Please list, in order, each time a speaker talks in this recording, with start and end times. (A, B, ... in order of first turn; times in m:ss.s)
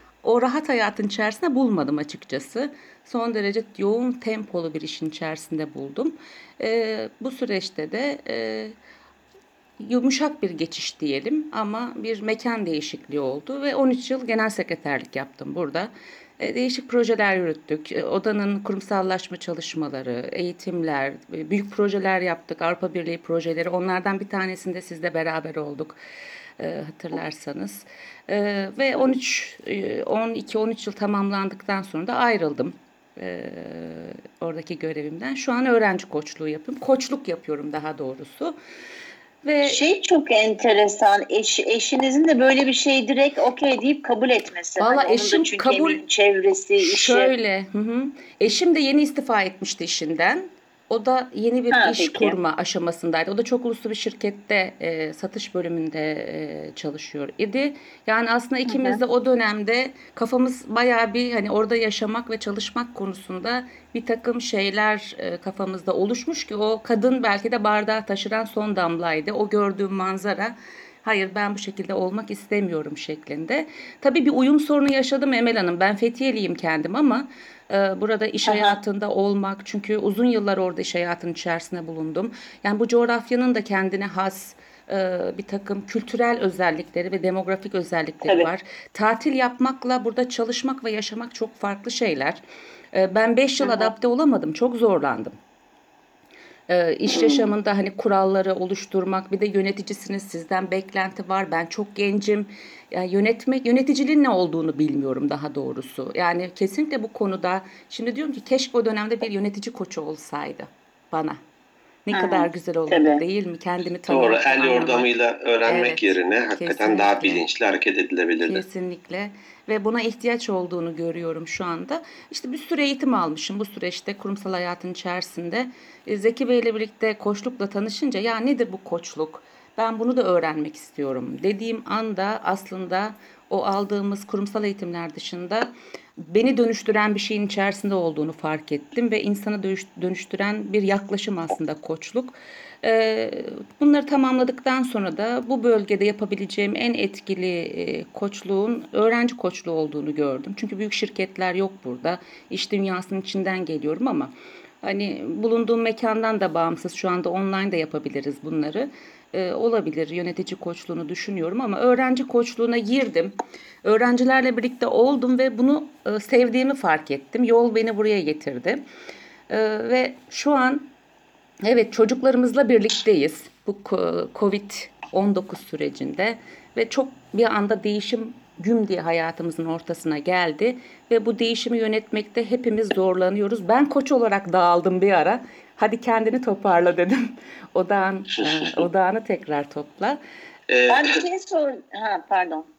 0:00.2-0:08.7 A
0:09.8-0:26.0 A
0:26.6-0:38.6 A
0:39.4-0:39.8 A
0:39.6-0:47.3 B
0:44.8-0:46.0 A
0:46.8-1:32.4 A
0:51.7-0:52.4 B
0:58.7-0:59.0 B
1:18.4-1:18.8 B
1:32.9-1:35.3 A
1:33.6-1:33.9 B
1:36.7-1:51.4 A
1:37.1-1:37.5 B
1:52.0-1:55.1 A
1:52.1-1:53.2 B
1:54.1-1:58.6 C
1:55.7-1:57.4 A
1:58.4-2:48.8 A
2:49.5-2:50.9 A
2:51.6-3:10.2 A
3:08.4-3:08.7 C
3:10.7-3:11.2 C
3:10.9-3:12.7 B